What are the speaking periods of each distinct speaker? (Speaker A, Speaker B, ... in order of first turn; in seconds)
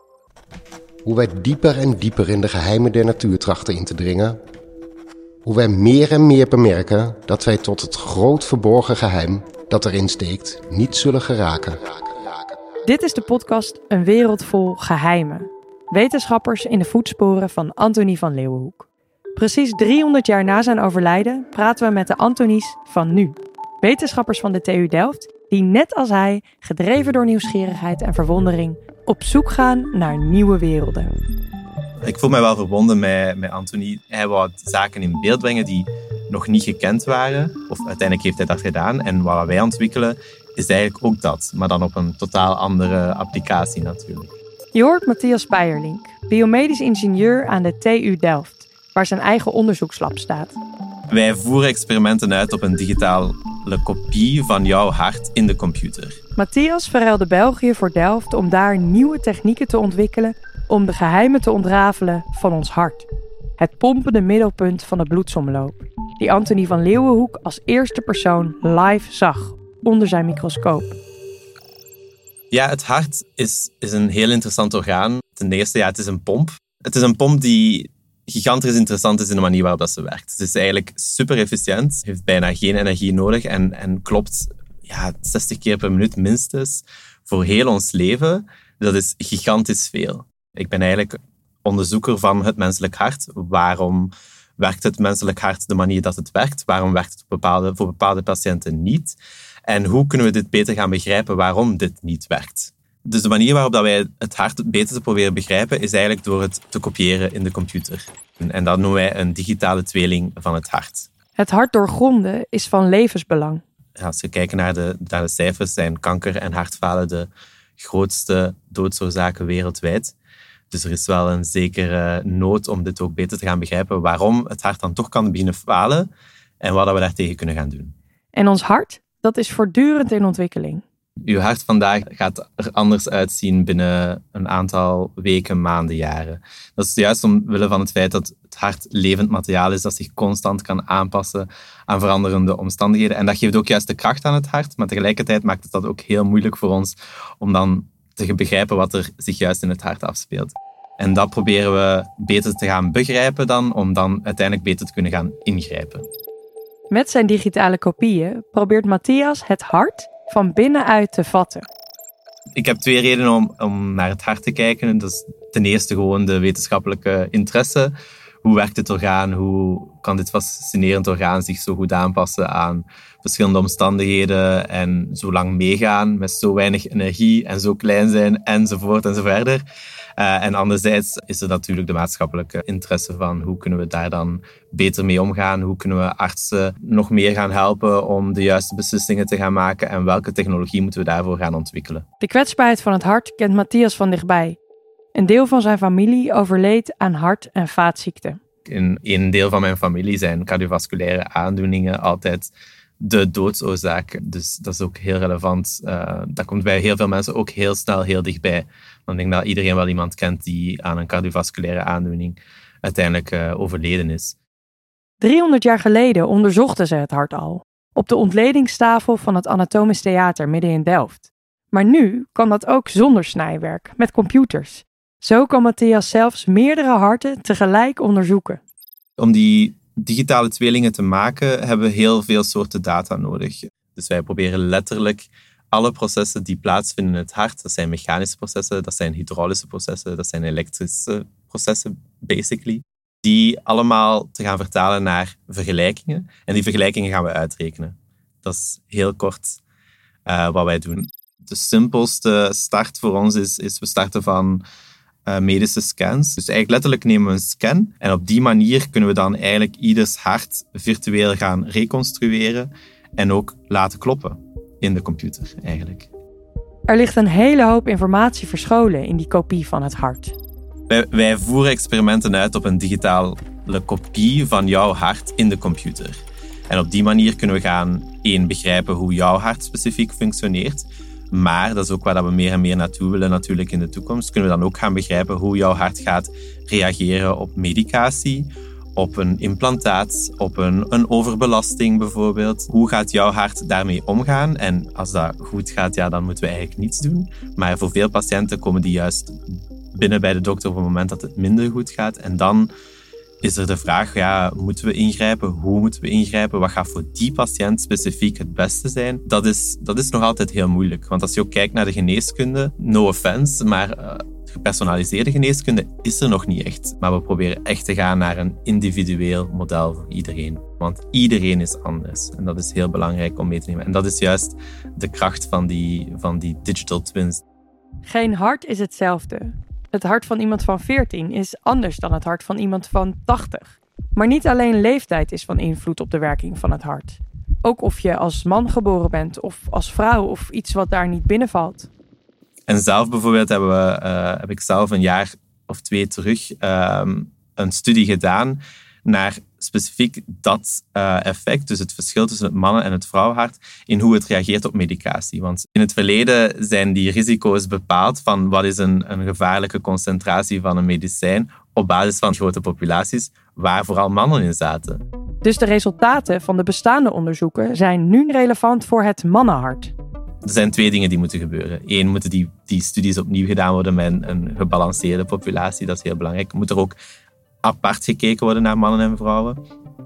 Speaker A: 1.0-4.4, 5.4-11.8
Speaker B: 12.8-31.1, 44.7-50.6, 56.4-63.1, 63.6-70.9, 111.4-113.6, 128.3-130.8, 156.9-161.7, 192.2-194.6, 195.1-198.4, 215.2-228.6, 266.9-270.4, 328.0-341.9, 365.4-369.9
Speaker C: 32.0-44.3, 51.1-56.2, 72.5-111.1, 114.0-120.1, 120.7-126.1, 126.6-128.0, 131.3-156.1, 162.6-179.6, 180.2-192.0, 198.7-214.4, 229.2-249.6, 250.3-254.6, 255.2-266.1, 270.9-299.4, 299.9-302.7, 303.4-327.4, 342.7-365.0, 370.4-377.0, 377.6-379.6